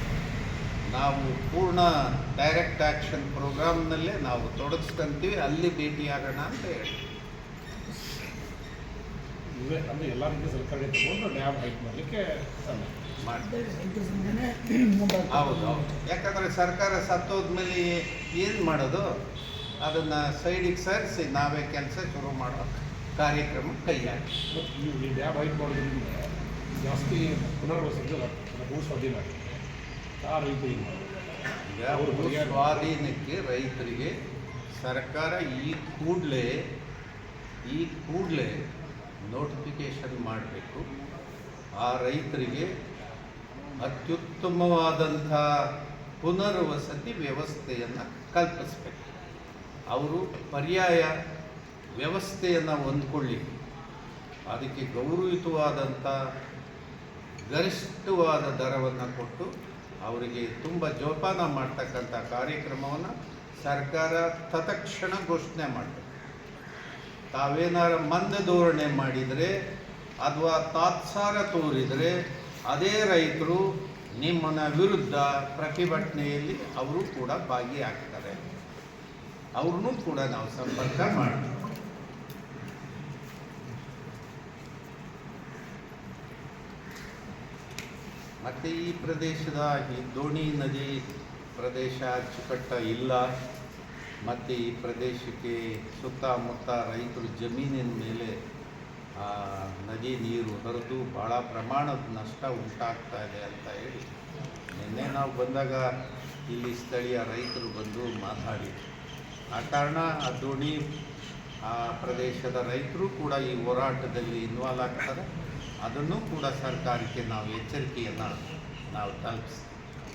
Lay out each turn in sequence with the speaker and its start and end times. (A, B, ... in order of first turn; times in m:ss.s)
0:00.9-0:07.0 A
0:09.6-0:13.0 B
0:13.2-0:13.6 A
0:13.6-0:15.7 C
0:15.3-0:19.1 A
0:19.8-0:24.2 A
0:24.5-0:29.6 B
0:30.2-0:31.1 B
0:31.6-0:34.1 A
0:31.9-0:32.8 B
0:34.8-0:36.5 A
0:37.7-0:38.5 A
0:39.3-0:40.8 A
0:41.8-0:42.7 A
0:43.8-0:45.4 A
0:46.2-0:49.0 A
0:49.9-0:51.1 A
0:52.0-0:53.5 A
0:54.5-0:56.1 A
0:57.5-0:59.5 A
1:00.0-1:06.0 A
1:07.3-1:09.5 A
1:10.2-1:12.1 A
1:12.7-1:13.6 A
1:14.2-1:18.4 A
1:19.6-1:21.4 A
1:28.4-1:31.0 A
1:31.6-1:33.3 A
1:34.3-1:38.3 A
1:39.2-1:44.0 A
1:44.7-1:45.8 A
1:46.5-1:48.8 A
1:49.5-1:50.8 A
1:51.6-1:55.2 A
1:55.8-1:59.6 A